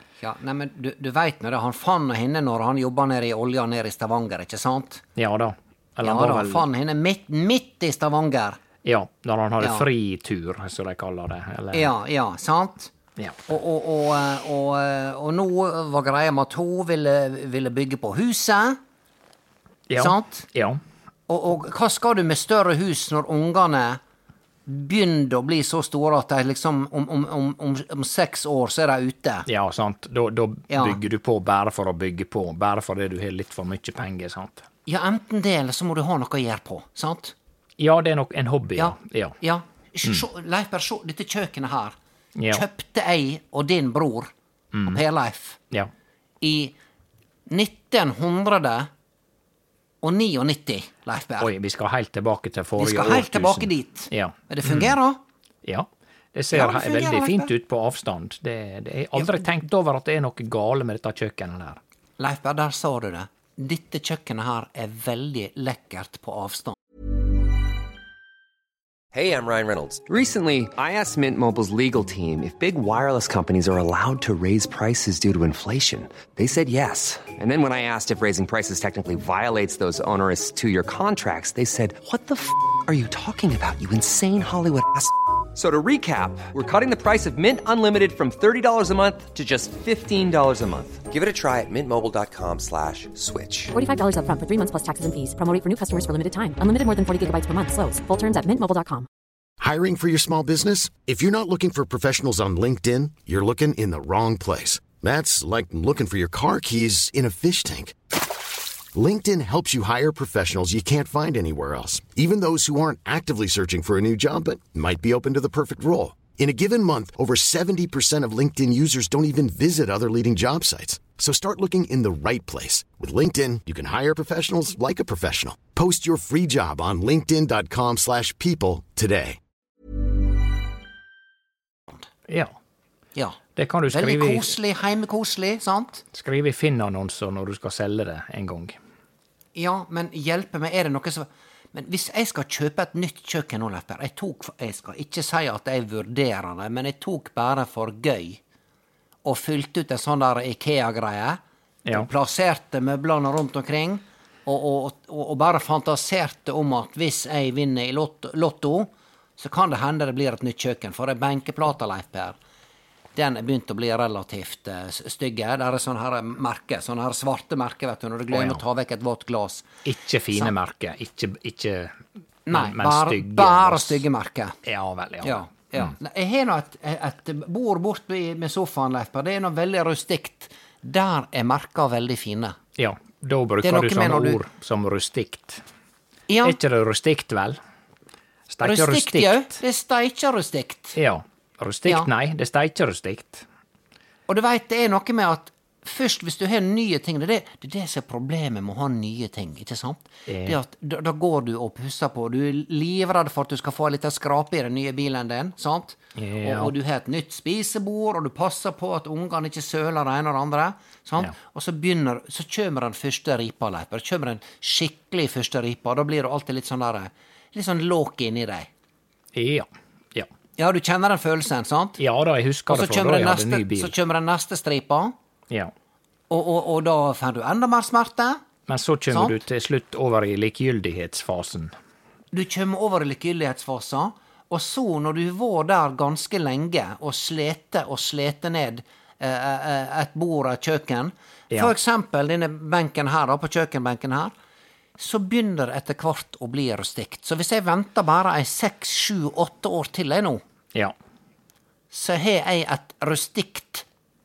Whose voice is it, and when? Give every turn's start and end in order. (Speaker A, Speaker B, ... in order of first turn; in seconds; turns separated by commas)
Speaker A: 0.2-5.0, Speaker B: 5.2-6.7, Speaker A: 6.0-8.6, Speaker B: 8.8-11.9, Speaker A: 9.6-9.8, Speaker A: 11.7-12.9, Speaker B: 13.2-13.4, Speaker A: 13.5-18.8, Speaker B: 19.9-20.8, Speaker A: 19.9-20.4, Speaker A: 21.3-24.0, Speaker A: 24.7-29.5, Speaker B: 29.5-34.6, Speaker A: 30.7-31.0, Speaker A: 34.9-37.3, Speaker B: 37.8-39.4, Speaker A: 38.8-42.0, Speaker B: 42.4-42.6, Speaker A: 42.5-44.3, Speaker B: 44.7-45.0, Speaker A: 44.9-45.6, Speaker A: 46.4-46.7, Speaker A: 47.5-48.9, Speaker A: 50.0-51.5, Speaker B: 51.4-54.9, Speaker A: 52.8-55.2, Speaker B: 55.6-61.8, Speaker A: 56.5-57.5, Speaker A: 59.1-59.4, Speaker A: 62.2-66.8, Speaker C: 69.1-93.7, Speaker D: 93.7-99.1, Speaker E: 99.6-107.9, Speaker E: 108.9-129.4, Speaker B: 132.3-132.5, Speaker B: 133.6-134.5, Speaker A: 133.9-136.0, Speaker B: 136.1-138.8, Speaker A: 139.5-148.4, Speaker A: 149.2-151.4, Speaker A: 151.9-162.3, Speaker A: 163.1-169.7, Speaker B: 168.3-168.6, Speaker B: 169.8-172.0, Speaker A: 172.5-174.6, Speaker B: 172.5-174.0, Speaker B: 174.6-175.9, Speaker A: 175.2-182.6, Speaker B: 182.8-185.6, Speaker A: 183.6-184.4, Speaker A: 186.3-186.6, Speaker B: 186.4-187.6, Speaker B: 188.5-189.6, Speaker A: 188.6-190.9, Speaker B: 190.9-193.4, Speaker A: 194.3-218.7, Speaker B: 200.3-200.6, Speaker B: 206.2-206.7, Speaker B: 219.3-220.3, Speaker A: 220.6-222.0, Speaker B: 222.0-223.9, Speaker A: 222.7-225.1, Speaker A: 226.3-228.4, Speaker B: 228.7-231.7, Speaker A: 229.1-229.3, Speaker A: 232.3-244.3, Speaker A: 245.0-250.4, Speaker A: 251.9-253.8